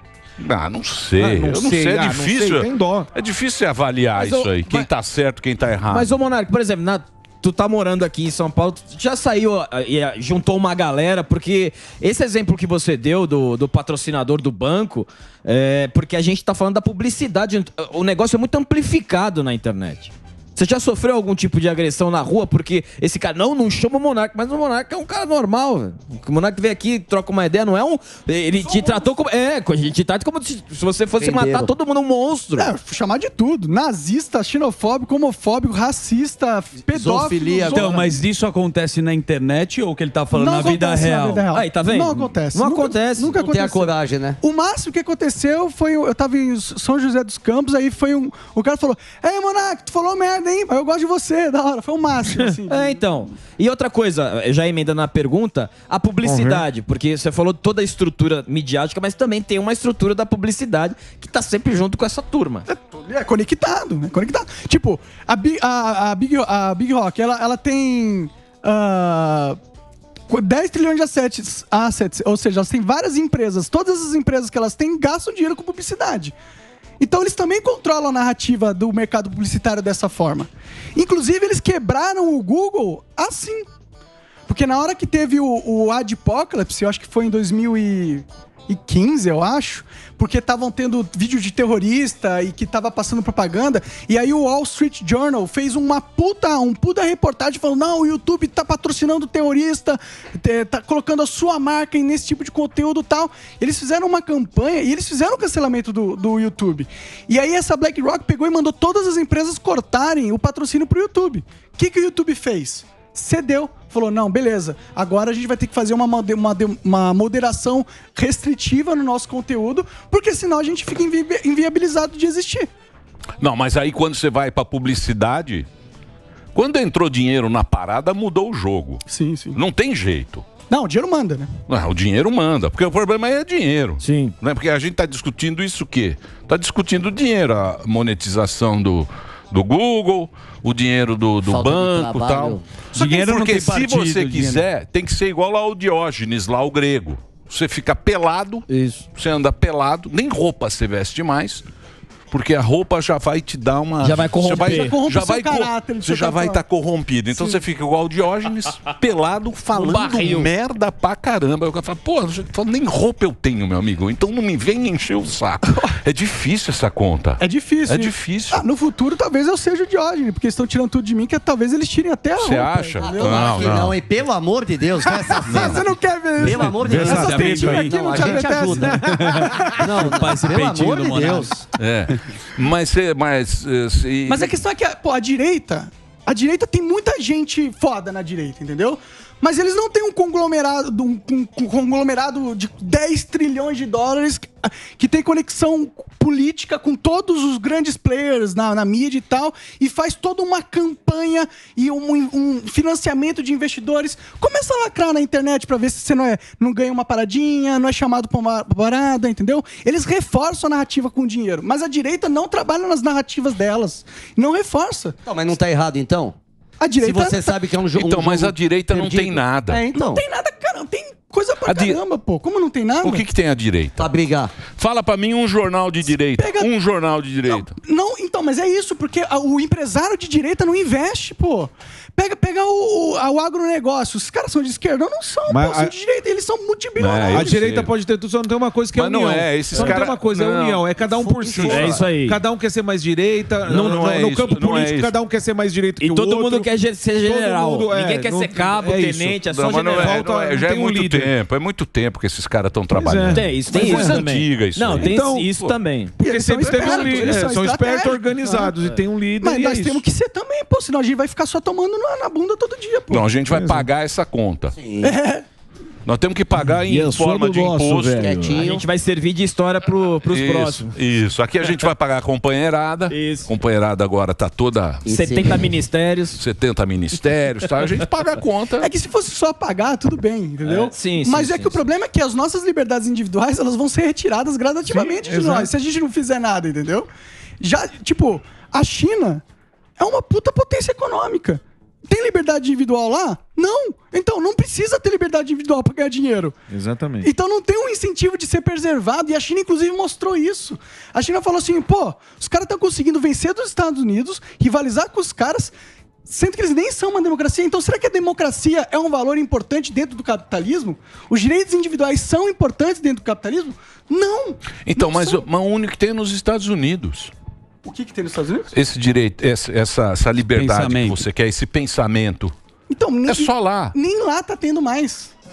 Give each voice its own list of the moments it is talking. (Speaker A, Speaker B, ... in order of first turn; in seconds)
Speaker A: 0.4-6.1, 123.4-125.7, 126.5-129.0, 129.5-130.4, 131.7-151.6, 152.3-168.6, 172.4-174.0, 175.5-175.8, 181.8-184.6, 217.9-219.8, 221.7-222.0, 223.0-224.1, 224.6-227.7, 237.0-237.9, 238.9-242.1, 243.8-245.2, 249.4-255.2, 263.1-264.8, 266.1-268.5, 270.3-275.0, 276.4-278.9, 314.9-317.3, 318.7-322.5, 323.3-323.9
Speaker B: 1.2-3.1, 56.2-56.6, 176.8-177.8, 235.5-235.9, 237.3-251.3, 252.9-254.3, 254.9-260.0, 263.5-263.9, 266.6-268.7, 284.9-285.7, 296.7-297.3
Speaker C: 4.2-4.9, 5.9-32.7, 41.5-43.4, 52.7-62.7, 134.0-134.3, 148.7-149.1, 154.0-155.0, 241.6-242.4, 243.7-244.2, 246.0-250.2, 253.3-256.1, 256.8-257.1, 268.5-271.0, 273.1-273.5, 275.1-276.4, 280.7-281.8
Speaker D: 28.6-29.0, 32.6-38.1, 40.3-53.0, 62.7-69.6, 70.3-76.3, 77.0-83.7, 84.5-122.7, 129.1-129.6, 130.7-131.5, 154.6-156.6, 157.3-157.6, 167.4-173.8, 175.0-180.3, 184.3-215.2, 216.8-217.6, 219.7-223.2, 226.4-226.7, 227.5-237.7, 256.2-258.8, 259.4-263.3, 265.0-265.4, 278.8-287.1, 287.6-289.4, 290.0-296.6, 297.2-305.7, 306.3-315.4, 317.9-318.7, 322.9-325.3
Speaker E: 31.2-31.7, 36.9-38.1, 43.3-44.4, 141.4-142.6, 173.0-175.9, 176.4-179.2, 179.8-181.7, 215.3-216.4, 217.0-220.2, 224.0-224.6, 264.8-265.2, 268.2-268.8, 275.1-275.7
Speaker F: 37.7-41.5, 142.9-144.7, 176.9-181.6, 320.5-321.2